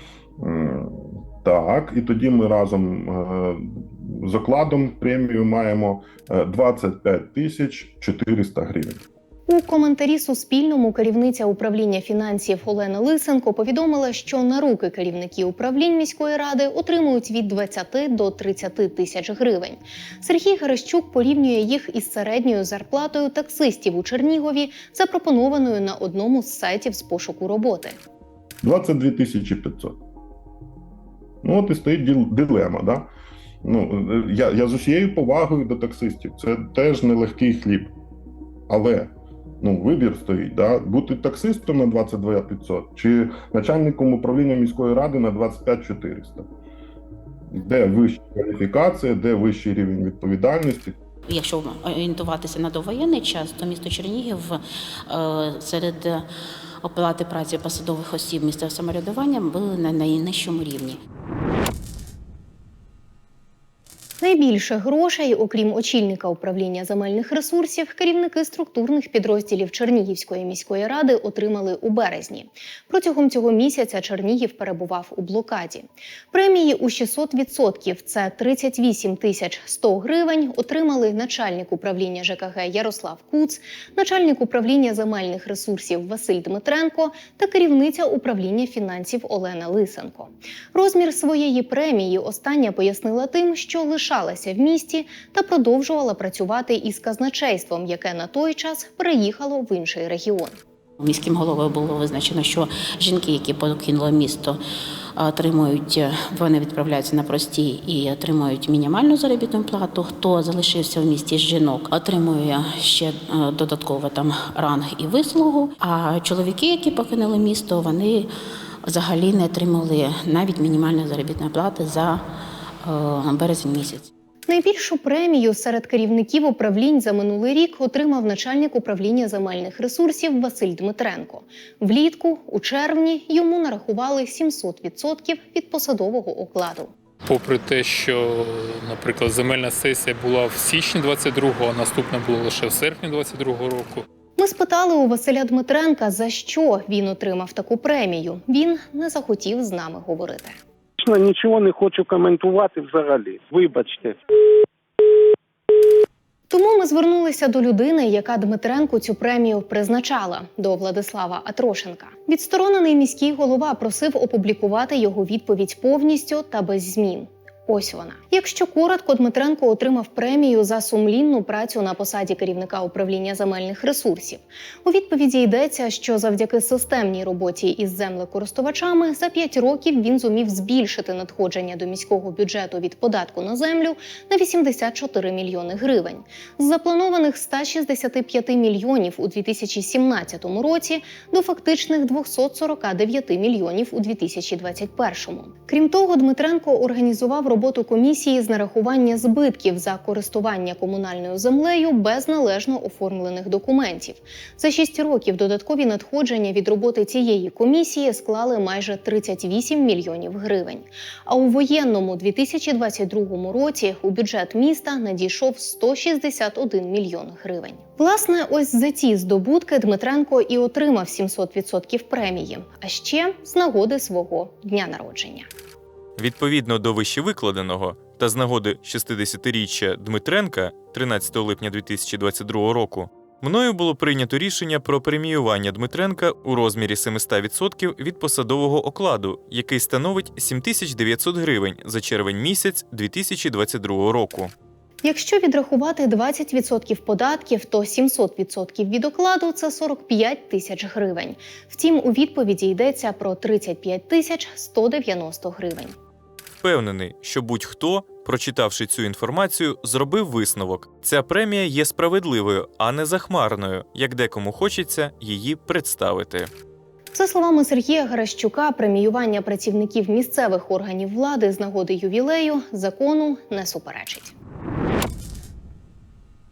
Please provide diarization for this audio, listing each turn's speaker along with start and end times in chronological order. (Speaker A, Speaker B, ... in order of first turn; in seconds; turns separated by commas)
Speaker A: 0.4-9.0, Speaker B: 9.5-28.0, Speaker A: 28.6-30.0, Speaker A: 31.4-33.1, Speaker A: 33.6-37.9, Speaker A: 38.7-46.5, Speaker A: 47.5-51.0, Speaker C: 51.3-56.3, Speaker C: 56.8-61.0, Speaker B: 64.2-100.5, Speaker C: 101.0-104.6, Speaker C: 105.2-118.3, Speaker C: 118.8-122.2, Speaker C: 122.8-124.1, Speaker B: 124.5-136.9, Speaker D: 137.3-144.0, Speaker B: 144.4-150.6, Speaker E: 151.0-154.2, Speaker B: 156.5-225.5, Speaker F: 226.2-244.5, Speaker B: 245.0-256.0, Speaker F: 256.6-266.5, Speaker B: 267.1-274.3